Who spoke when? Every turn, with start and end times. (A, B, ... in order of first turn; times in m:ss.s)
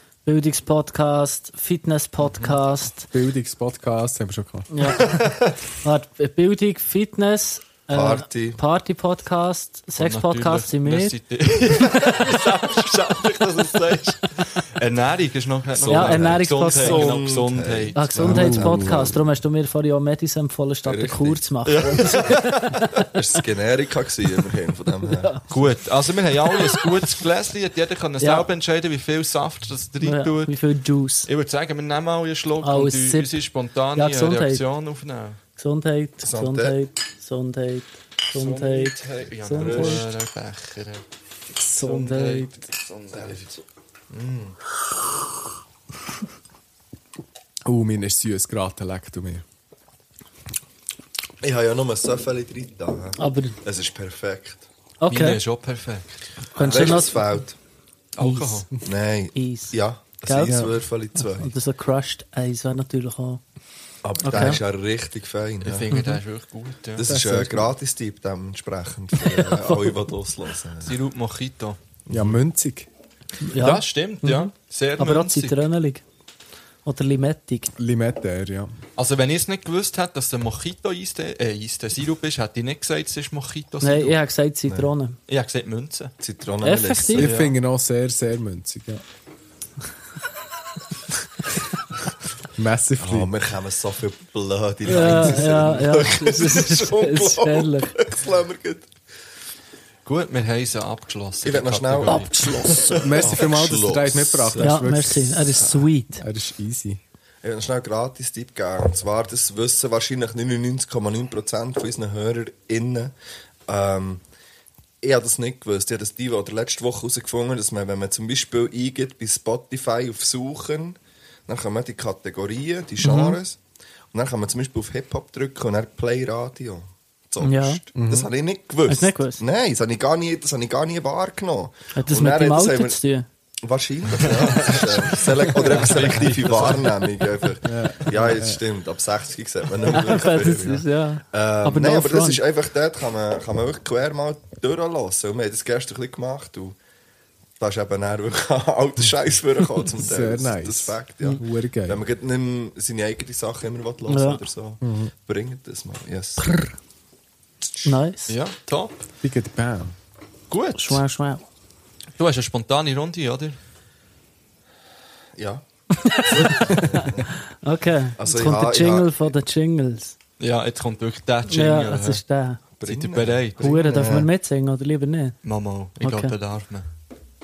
0:00.2-0:03.1 A
0:03.1-0:04.7 B
0:04.7-0:11.1 A
0:05.1-0:05.5 C
0:07.9-0:08.6 D
0:10.0-0:18.1 C
0:11.7-0:12.4 A
0:15.8-0:19.2 D
0:15.9-0:17.1 A
0:17.9-0:22.9 A
0:18.2-0:19.2 B
0:20.8-0:21.4 D
0:21.6-0:23.0 C
0:23.1-0:25.4 D
0:25.2-0:25.5 A
0:25.5-0:30.6 C
0:26.5-0:26.8 A
0:28.2-0:28.5 A
0:30.0-0:31.3 A
0:31.2-0:35.4 C
0:32.6-0:33.4 A
0:33.9-0:34.6 A
0:35.6-0:40.0 A
0:36.2-0:36.8 D
0:38.3-0:41.0 C
0:39.6-0:40.0 D
0:41.6-0:42.5 A
0:41.8-0:43.5 C
0:43.2-0:43.4 D
0:44.1-0:44.6 C
0:47.6-0:49.4 B
0:51.4-0:54.6 D
0:53.2-0:53.5 A
0:55.0-0:55.4 A
0:55.1-0:57.0 C
0:56.5-0:57.4 A
0:56.6-0:57.6 D
0:58.2-0:58.7 C
0:58.2-0:58.8 A
0:58.8-1:01.5 D
0:59.3-1:00.6 A
1:00.4-1:00.7 B
1:01.3-1:03.4 A
1:04.0-1:05.9 D
1:04.2-1:04.6 A
1:05.6-1:07.0 C
1:05.9-1:06.2 A
1:07.0-1:11.0 D
1:07.0-1:07.7 B
1:10.8-1:11.8 C
1:12.1-1:12.9 B
1:13.4-1:16.0 A
1:13.6-1:15.6 C
1:16.8-1:17.7 A
1:17.8-1:18.7 B
1:19.0-1:24.2 C
1:23.8-1:25.2 A
1:25.3-1:26.1 C
1:26.2-1:27.3 D
1:26.6-1:27.3 A
1:27.2-1:27.5 C
1:27.2-1:29.0 B
1:32.6-1:33.3 B
1:33.0-1:38.9 D
1:34.8-1:37.9 A
1:40.0-1:42.3 C
1:41.4-1:44.9 D
1:42.0-1:43.2 A
1:43.0-1:47.0 B
1:43.2-1:43.4 C
1:44.6-1:46.2 A
1:47.4-1:53.1 D
1:53.7-1:54.2 D
1:55.0-2:03.6 D
2:03.0-2:03.4 A
2:04.1-2:13.0 D
2:07.4-2:07.8 A
2:07.9-2:08.3 B
2:08.9-2:09.4 A
2:11.9-2:13.2 A
2:13.6-2:26.8 D
2:14.2-2:16.9 C
2:17.6-2:18.6 B
2:19.9-2:22.4 A
2:27.6-2:36.7 D
2:29.9-2:32.0 B
2:34.1-2:34.4 A
2:34.8-2:35.1 B
2:36.4-2:36.7 A
2:37.8-2:38.3 A
2:38.3-2:39.0 C
2:39.2-2:39.9 B
2:40.5-2:41.0 C
2:40.8-2:41.4 A
2:42.2-2:43.6 C
2:45.4-2:47.3 D
2:46.0-2:50.2 A
2:48.2-2:49.2 D
2:50.4-2:52.2 C
2:51.5-2:52.6 A
2:52.8-2:54.3 D
2:52.8-2:53.6 C
2:53.6-2:55.4 A
2:55.4-2:56.8 C
2:56.0-2:56.3 A